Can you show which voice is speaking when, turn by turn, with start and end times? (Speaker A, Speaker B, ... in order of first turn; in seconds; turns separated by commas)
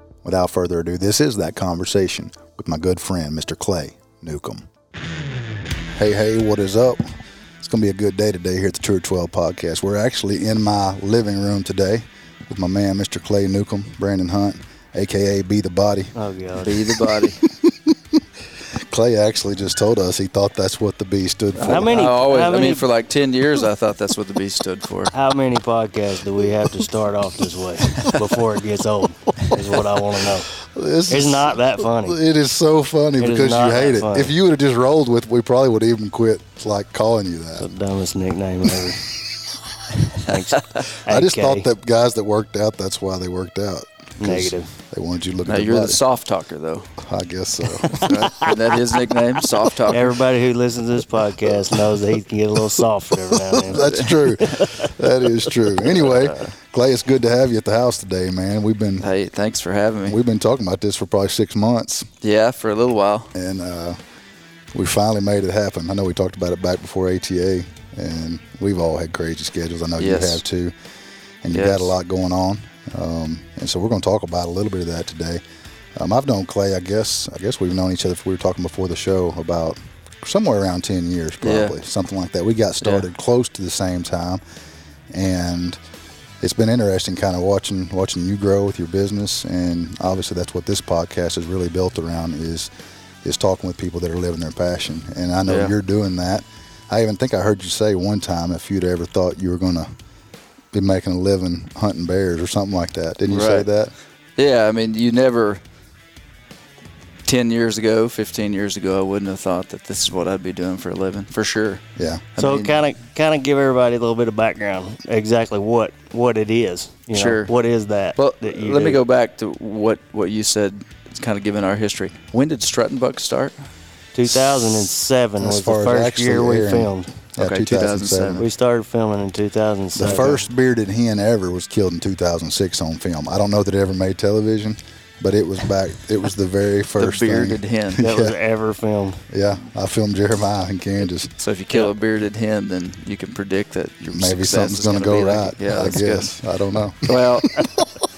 Speaker A: 0.2-4.7, Speaker A: 5.9-7.1, Speaker A: 7.6-16.1, Speaker B: 16.1-16.7, Speaker C: 16.6-17.4, Speaker A: 16.8-18.2, Speaker A: 18.9-22.0, Speaker C: 21.6-25.1, Speaker B: 21.6-22.8, Speaker B: 25.1-30.5, Speaker A: 30.6-37.7, Speaker B: 31.1-32.2, Speaker B: 33.2-34.3, Speaker B: 37.6-39.0, Speaker A: 38.8-39.1, Speaker B: 40.2-41.7, Speaker A: 41.0-46.0, Speaker B: 44.2-44.7, Speaker C: 45.5-46.9, Speaker A: 47.0-48.2, Speaker B: 47.9-48.5, Speaker C: 48.0-50.1, Speaker B: 49.9-54.9, Speaker A: 53.3-59.1, Speaker C: 53.8-54.3, Speaker C: 59.0-60.2, Speaker A: 60.0-62.1, Speaker C: 62.2-63.3, Speaker A: 63.3-64.0, Speaker A: 64.7-70.8, Speaker C: 70.0-70.4, Speaker A: 71.4-75.4, Speaker C: 71.5-71.9, Speaker A: 76.0-84.4, Speaker C: 81.4-81.8, Speaker A: 85.1-85.8, Speaker A: 86.4-92.7, Speaker A: 93.2-99.9, Speaker C: 95.5-95.7, Speaker A: 100.7-103.9, Speaker C: 103.3-103.7, Speaker C: 104.4-105.6, Speaker C: 107.2-111.8, Speaker A: 112.0-112.2, Speaker C: 112.3-112.7, Speaker B: 112.4-119.0, Speaker C: 117.1-117.5, Speaker C: 118.2-123.7, Speaker B: 124.1-127.1, Speaker C: 124.3-124.8, Speaker A: 125.4-128.4, Speaker C: 127.4-128.4, Speaker B: 128.4-130.4, Speaker A: 129.9-138.3, Speaker C: 137.0-138.0, Speaker B: 138.0-139.2, Speaker A: 139.3-141.3, Speaker C: 141.4-146.3, Speaker A: 144.1-147.9, Speaker C: 147.0-147.7